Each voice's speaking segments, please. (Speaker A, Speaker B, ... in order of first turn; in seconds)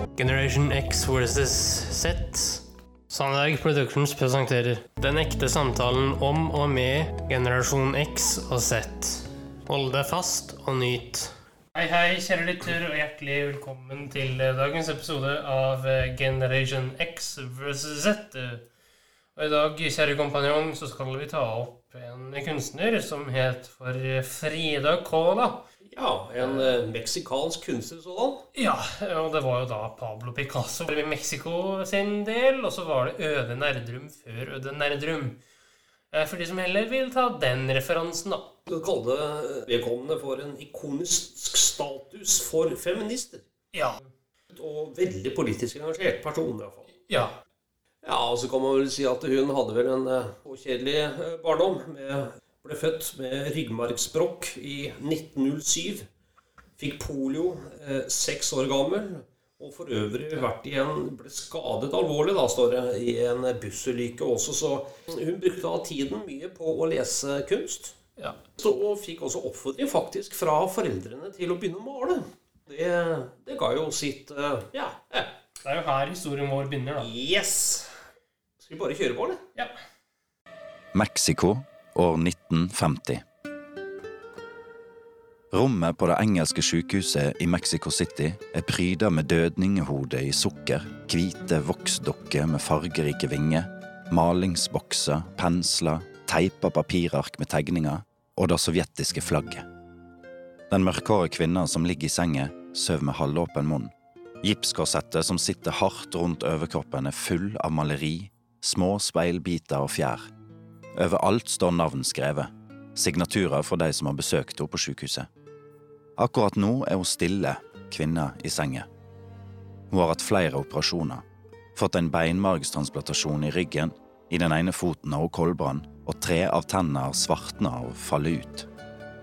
Speaker A: 0.2-18.6, 19.4-25.6, 26.4-26.7, 28.6-35.4, 36.1-38.5, 47.1-47.3, 75.6-77.1
Speaker B: 25.9-28.4, 38.7-43.5, 44.5-46.9, 48.0-56.1, 56.8-68.0, 68.5-75.3, 77.0-77.9, 78.6-79.4
Speaker C: 80.9-83.2, 85.5-99.7, 100.7-110.3, 110.9-115.3, 116.2-118.9, 119.9-121.2, 121.8-128.7